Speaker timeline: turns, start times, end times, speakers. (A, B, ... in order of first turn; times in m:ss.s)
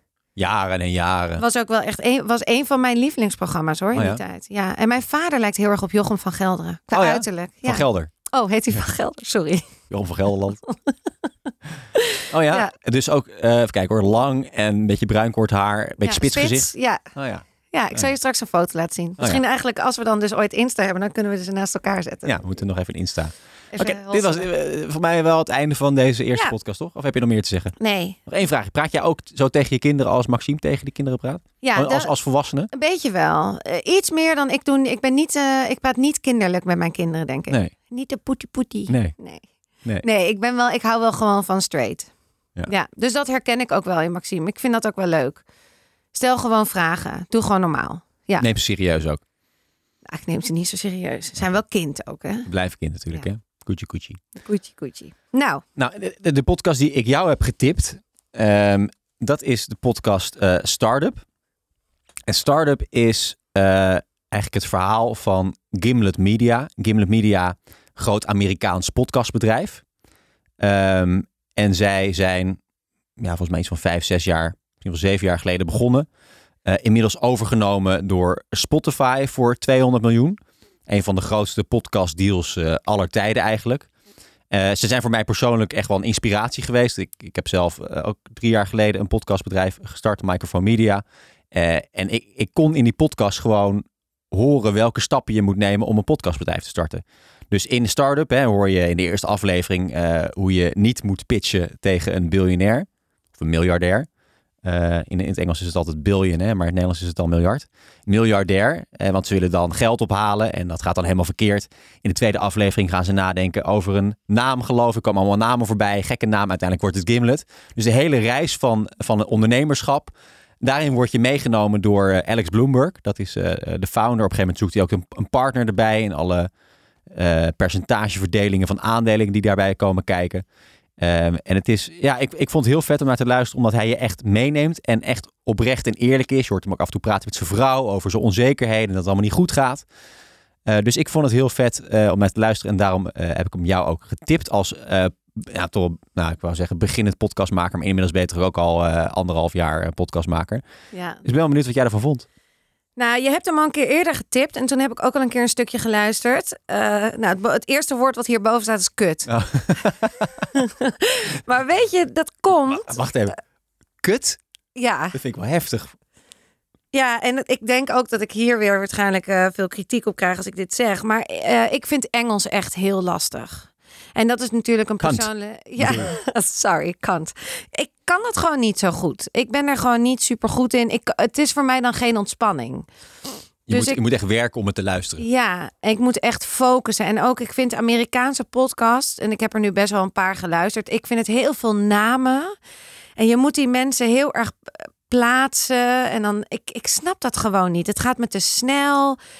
0:00.4-0:01.4 A
0:01.4-0:09.8 B
0:03.9-0:04.2 A
0:06.9-0:08.1 A
0:09.9-0:10.6 A
0:10.7-0:10.9 B
0:12.0-0:12.7 B
0:12.3-0:17.4 A
0:16.0-0:17.0 B
0:17.7-0:22.4 B
0:22.2-0:27.7 A
0:23.7-0:24.5 B
0:27.8-0:28.2 B
0:28.3-0:32.7 A
0:31.6-0:32.1 B
0:32.7-0:39.4 B
0:38.9-0:39.1 A
0:40.0-0:42.1 B
0:42.6-0:45.4 B
0:46.1-0:48.4 B
0:48.4-0:49.2 A
0:50.1-0:52.5 B
0:52.4-0:54.2 A
0:54.4-0:55.6 B
0:55.8-1:01.2 A
1:02.3-1:09.8 A
1:10.6-1:12.6 A
1:13.2-1:16.1 A
1:16.6-1:23.9 A
1:24.5-1:44.1 A
1:44.6-2:06.5 A
2:07.1-2:10.4 A
2:11.0-2:19.8 A
2:20.6-2:30.6 A
2:30.9-2:31.2 B
2:31.2-2:32.2 A
2:33.0-2:39.9 B
2:39.2-2:40.5 A
2:40.5-2:43.0 B
2:42.6-2:43.3 A
2:44.0-2:44.4 A
2:44.8-2:45.2 B
2:45.1-2:45.9 A
2:46.9-3:02.8 B
2:55.0-2:56.1 A
3:03.7-3:05.2 A
3:03.7-3:04.0 B
3:05.2-3:12.5 B
3:13.2-3:19.2 B